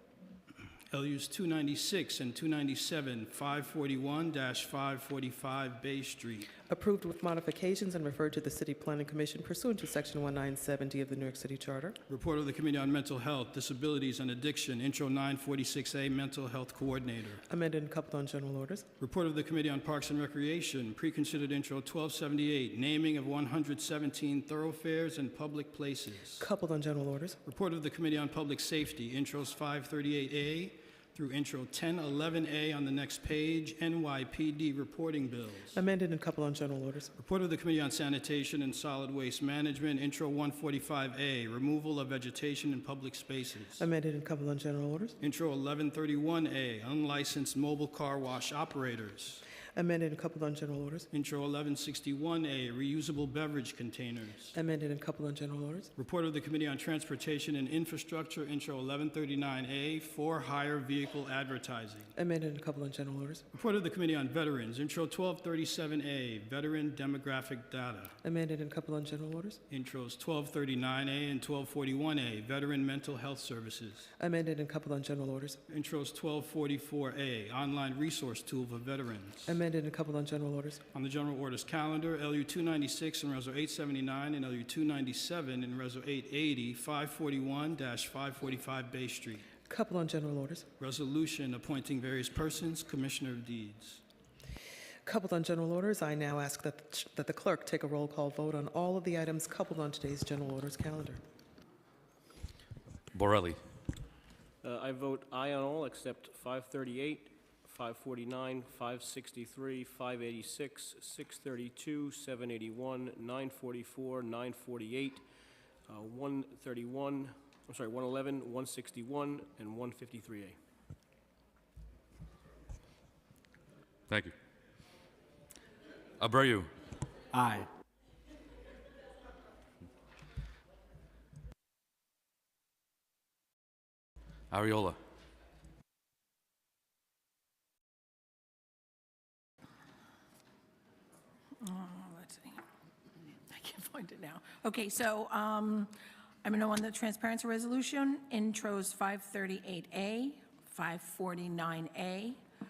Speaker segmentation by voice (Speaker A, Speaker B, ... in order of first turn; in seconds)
Speaker A: 0.9-6.5, 12.1-17.4, 19.0-26.5, 27.4-35.8, 37.2-43.9, 45.2-49.4, 51.1-54.5, 56.0-62.1, 63.5-68.1, 69.7-74.1, 75.7-79.5, 80.9-89.5, 90.8-94.0
Speaker B: 6.7-12.0, 17.5-18.9, 26.4-27.4, 35.7-37.1, 43.8-45.2, 49.7-51.1, 54.5-55.9, 62.2-63.4, 68.2-69.6, 74.2-75.6, 79.5-80.8, 89.7-90.7, 95.0-101.2
Speaker C: 103.1-103.6, 124.1-124.3, 126.2-126.7, 134.5-135.0
Speaker D: 104.6-115.2, 115.8-120.6
Speaker E: 141.6-142.6, 143.5-145.9, 146.4-152.4